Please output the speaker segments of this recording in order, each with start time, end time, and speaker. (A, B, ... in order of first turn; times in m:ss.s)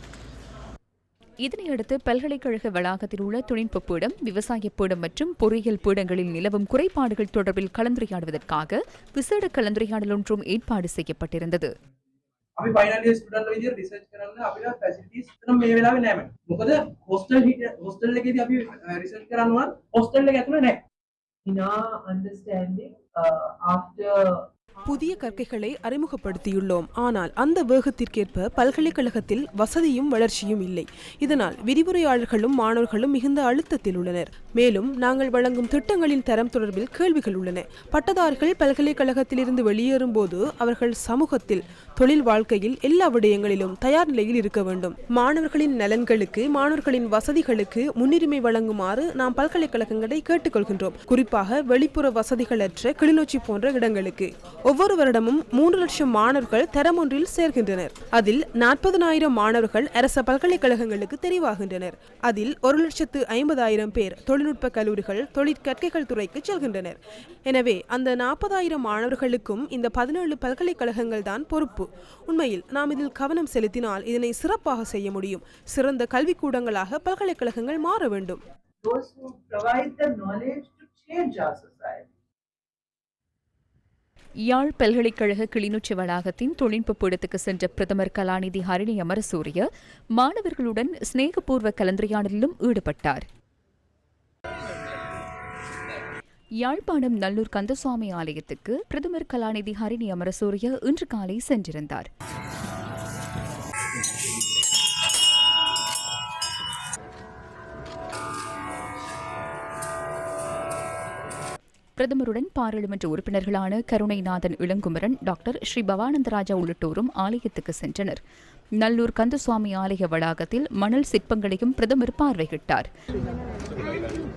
0:01.4-0:11.7 A
0:12.6-0:20.8 B
0:21.4-0:24.5 C
0:24.9-1:18.4 D
1:18.8-1:22.1 C
1:24.5-1:33.2 A
1:36.6-1:42.1 A
1:52.0-1:58.2 A
1:58.8-2:02.9 A